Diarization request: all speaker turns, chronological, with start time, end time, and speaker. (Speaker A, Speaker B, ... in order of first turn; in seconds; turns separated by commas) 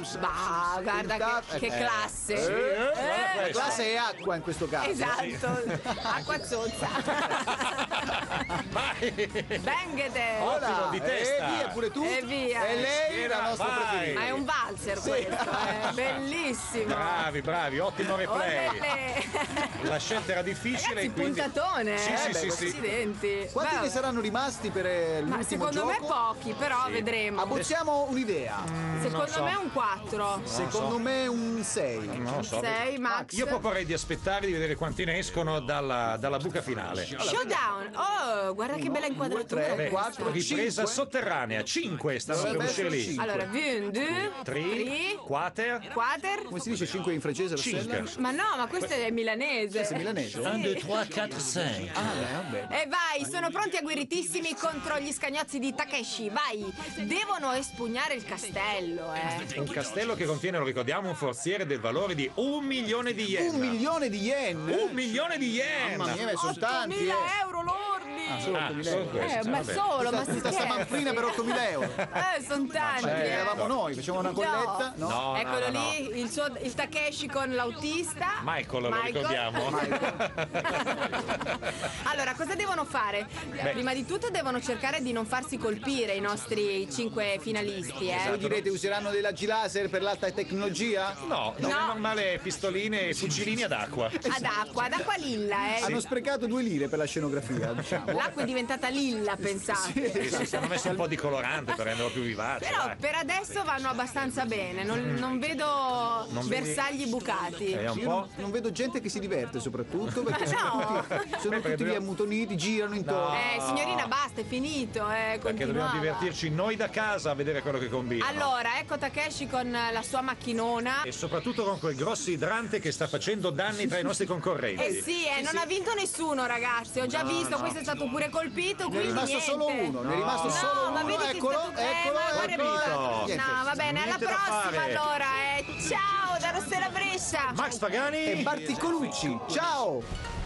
Speaker A: 0.1-3.8, Speaker B: 0.9-5.3, Speaker C: 1.7-3.8, Speaker A: 4.8-8.6, Speaker C: 5.0-6.2, Speaker C: 7.1-9.7, Speaker A: 9.6-10.7, Speaker C: 10.4-11.8, Speaker B: 10.4-14.4, Speaker A: 12.0-12.9, Speaker C: 12.8-14.4, Speaker A: 14.1-17.2, Speaker B: 15.0-16.0, Speaker C: 15.7-16.2, Speaker C: 16.8-19.0, Speaker A: 18.2-19.9, Speaker C: 19.6-22.8, Speaker A: 20.7-24.0, Speaker B: 22.1-22.9, Speaker B: 23.5-26.2, Speaker A: 25.2-27.6, Speaker C: 26.8-27.7, Speaker B: 27.4-28.7, Speaker C: 28.6-29.6, Speaker A: 28.9-30.5, Speaker C: 30.5-31.0, Speaker B: 30.5-32.4, Speaker C: 32.1-37.1, Speaker A: 32.4-33.6, Speaker B: 33.0-33.3, Speaker B: 37.2-37.6, Speaker A: 37.2-40.4, Speaker B: 38.7-41.0, Speaker C: 39.7-43.2, Speaker B: 42.3-43.5, Speaker A: 42.3-45.2, Speaker C: 44.3-45.9, Speaker A: 45.9-46.5, Speaker B: 46.5-48.0, Speaker C: 47.5-48.2, Speaker A: 48.1-50.9, Speaker B: 49.7-50.6, Speaker C: 50.4-52.3, Speaker B: 51.9-52.7, Speaker A: 52.7-59.5, Speaker C: 59.5-63.8, Speaker B: 63.3-65.0, Speaker C: 64.7-66.2, Speaker B: 65.8-67.3, Speaker A: 66.2-73.6, Speaker B: 68.3-69.2, Speaker C: 68.5-69.9, Speaker B: 70.0-72.0, Speaker C: 71.8-72.2, Speaker C: 72.8-73.7, Speaker B: 73.0-75.2, Speaker A: 74.2-88.4, Speaker C: 75.0-76.0, Speaker C: 78.4-81.7, Speaker B: 79.7-80.2, Speaker C: 88.1-88.6, Speaker B: 88.2-91.2, Speaker C: 91.2-94.2, Speaker A: 91.6-92.0, Speaker A: 94.2-96.0, Speaker B: 95.8-98.3, Speaker C: 97.8-98.2, Speaker A: 98.1-100.6, Speaker B: 99.6-101.0, Speaker C: 100.2-103.0, Speaker A: 102.6-107.8, Speaker C: 104.9-105.3, Speaker C: 106.3-106.8, Speaker C: 107.7-108.3, Speaker B: 107.9-113.5, Speaker A: 110.2-111.3, Speaker C: 110.9-112.0, Speaker C: 113.0-114.1, Speaker A: 113.3-116.3, Speaker C: 115.4-118.5, Speaker A: 118.2-121.0, Speaker C: 121.0-125.0, Speaker A: 124.8-137.6, Speaker B: 124.8-125.7, Speaker C: 127.1-127.8, Speaker B: 128.9-133.6, Speaker C: 130.0-131.1, Speaker C: 132.3-135.0, Speaker C: 137.5-138.6, Speaker B: 138.2-140.1